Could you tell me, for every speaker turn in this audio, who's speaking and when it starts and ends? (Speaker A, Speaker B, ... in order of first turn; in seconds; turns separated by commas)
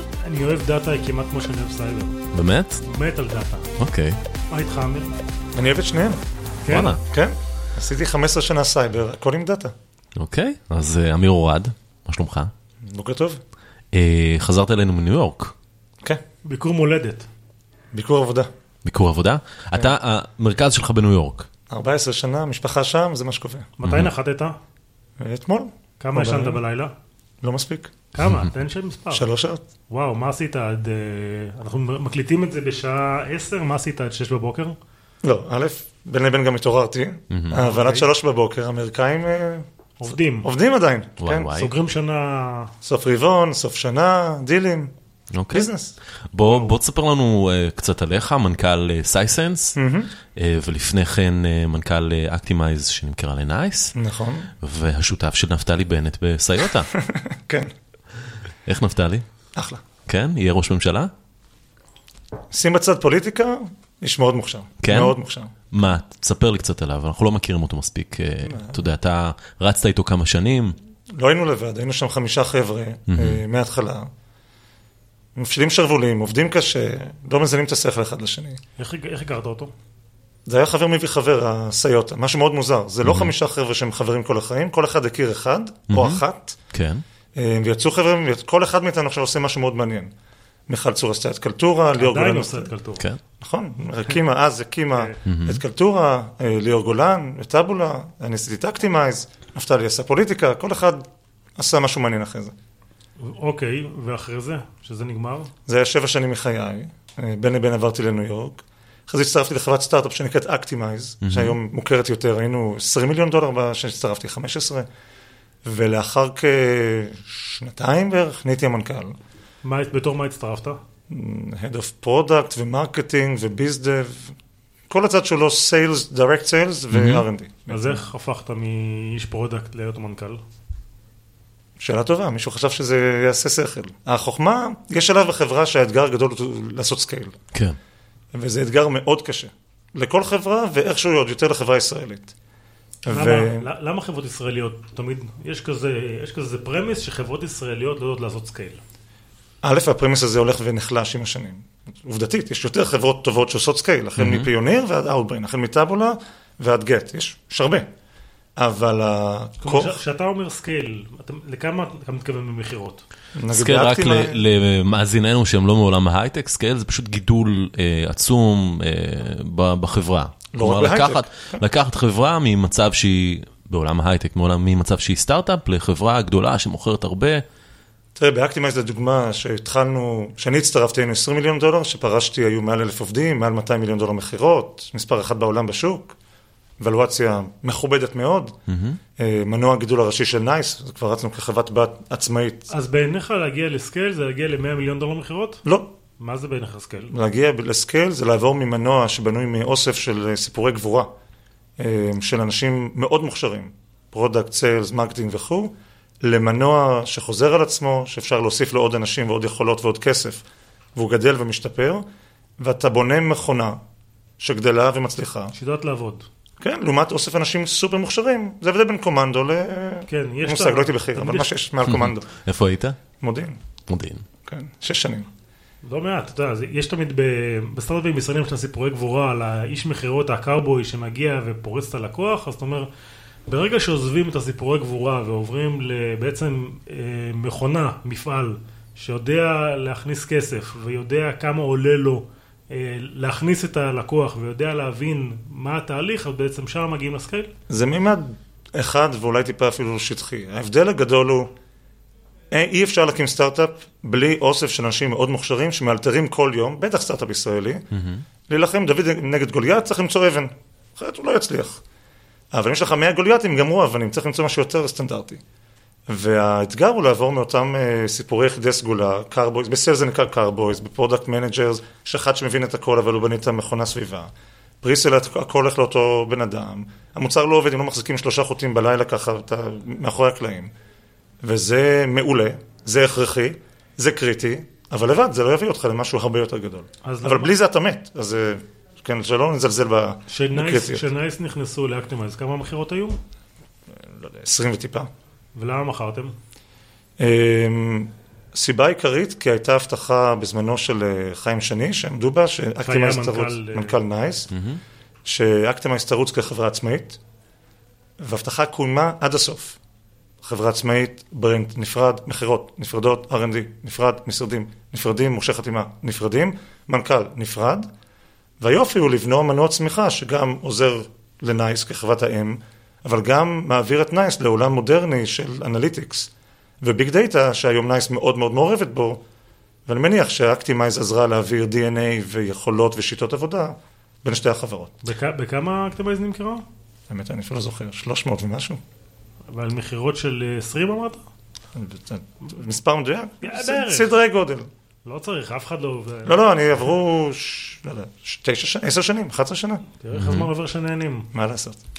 Speaker A: 0.2-2.2, Speaker B: 2.3-2.8, Speaker A: 2.9-3.7, Speaker B: 3.8-4.2, Speaker A: 4.5-5.1, Speaker C: 5.5-6.2, Speaker A: 6.7-7.0, Speaker B: 6.7-7.0, Speaker C: 7.0-9.7, Speaker B: 10.2-12.5, Speaker C: 12.8-13.4, Speaker B: 13.9-15.5, Speaker A: 16.4-17.3, Speaker C: 17.9-18.5, Speaker B: 18.8-21.5, Speaker C: 21.7-23.7, Speaker A: 23.8-24.6, Speaker B: 23.8-24.1, Speaker C: 25.2-26.6, Speaker A: 26.0-26.9, Speaker C: 27.4-27.9, Speaker A: 28.1-29.2, Speaker C: 29.1-29.6, Speaker A: 29.9-34.8, Speaker C: 35.2-39.7, Speaker B: 37.3-37.6, Speaker A: 37.6-38.1, Speaker A: 40.0-40.5, Speaker C: 40.4-41.5, Speaker B: 41.2-41.7, Speaker A: 41.5-42.7, Speaker C: 42.8-44.9, Speaker B: 45.3-45.7, Speaker C: 45.5-45.9, Speaker B: 46.3-49.8, Speaker C: 49.8-50.1, Speaker B: 50.3-53.9, Speaker C: 53.9-54.5, Speaker B: 54.6-56.9, Speaker C: 56.9-57.7, Speaker B: 58.6-59.2, Speaker C: 59.5-59.8, Speaker B: 60.1-61.1, Speaker C: 62.5-65.5, Speaker B: 64.8-65.2, Speaker B: 65.7-70.8, Speaker C: 68.4-68.9, Speaker C: 71.1-74.1, Speaker B: 73.1-73.4, Speaker C: 75.3-78.6, Speaker A: 78.8-79.7, Speaker C: 80.5-86.6, Speaker B: 83.0-83.3, Speaker B: 85.9-86.2, Speaker B: 86.7-87.0, Speaker C: 87.3-90.1, Speaker C: 90.7-92.7, Speaker A: 92.0-93.0, Speaker C: 93.4-102.5, Speaker B: 95.2-95.6, Speaker A: 103.2-105.5, Speaker C: 105.7-114.9, Speaker B: 111.2-111.6, Speaker C: 115.6-119.1, Speaker A: 119.6-120.8, Speaker C: 121.1-124.4, Speaker C: 124.9-128.0, Speaker B: 126.9-127.2, Speaker A: 127.7-130.4, Speaker C: 131.8-137.3, Speaker C: 138.3-142.3, Speaker C: 143.0-143.7, Speaker A: 143.1-148.8, Speaker C: 149.6-157.9, Speaker B: 154.2-154.5, Speaker C: 158.6-160.0, Speaker A: 159.6-163.0, Speaker C: 163.3-164.4, Speaker B: 163.5-177.4, Speaker C: 170.5-171.6, Speaker C: 178.2-186.1, Speaker C: 186.8-188.6, Speaker B: 188.7-189.0, Speaker C: 189.2-192.7, Speaker A: 192.7-195.6, Speaker C: 195.6-195.9, Speaker A: 196.2-197.1, Speaker C: 197.1-201.1, Speaker C: 201.8-210.4, Speaker C: 210.9-212.0, Speaker C: 212.6-213.8, Speaker C: 214.4-215.5, Speaker A: 215.5-216.3, Speaker C: 216.6-222.3, Speaker A: 220.1-221.5, Speaker B: 221.8-222.9, Speaker C: 223.2-223.6, Speaker B: 223.9-224.2, Speaker C: 224.4-225.3, Speaker A: 225.8-232.9, Speaker A: 233.5-247.5, Speaker C: 247.7-251.5, Speaker C: 252.5-257.9, Speaker B: 257.9-258.2, Speaker C: 258.5-261.8, Speaker C: 262.5-265.4, Speaker C: 266.1-280.7, Speaker C: 281.4-291.1, Speaker A: 287.0-287.5, Speaker A: 290.3-293.2, Speaker C: 293.9-295.1, Speaker A: 295.6-296.3, Speaker C: 297.2-304.5, Speaker A: 302.8-304.0, Speaker B: 304.5-304.8, Speaker C: 305.2-307.2, Speaker C: 308.2-309.8, Speaker C: 310.4-317.9, Speaker C: 318.6-329.2, Speaker C: 329.9-334.9, Speaker A: 335.0-336.6, Speaker C: 337.1-338.8, Speaker A: 339.5-341.2, Speaker C: 341.7-344.7, Speaker A: 343.4-344.1, Speaker A: 345.1-346.4, Speaker C: 346.2-349.8, Speaker A: 350.0-351.3, Speaker B: 350.1-350.5, Speaker C: 351.3-351.8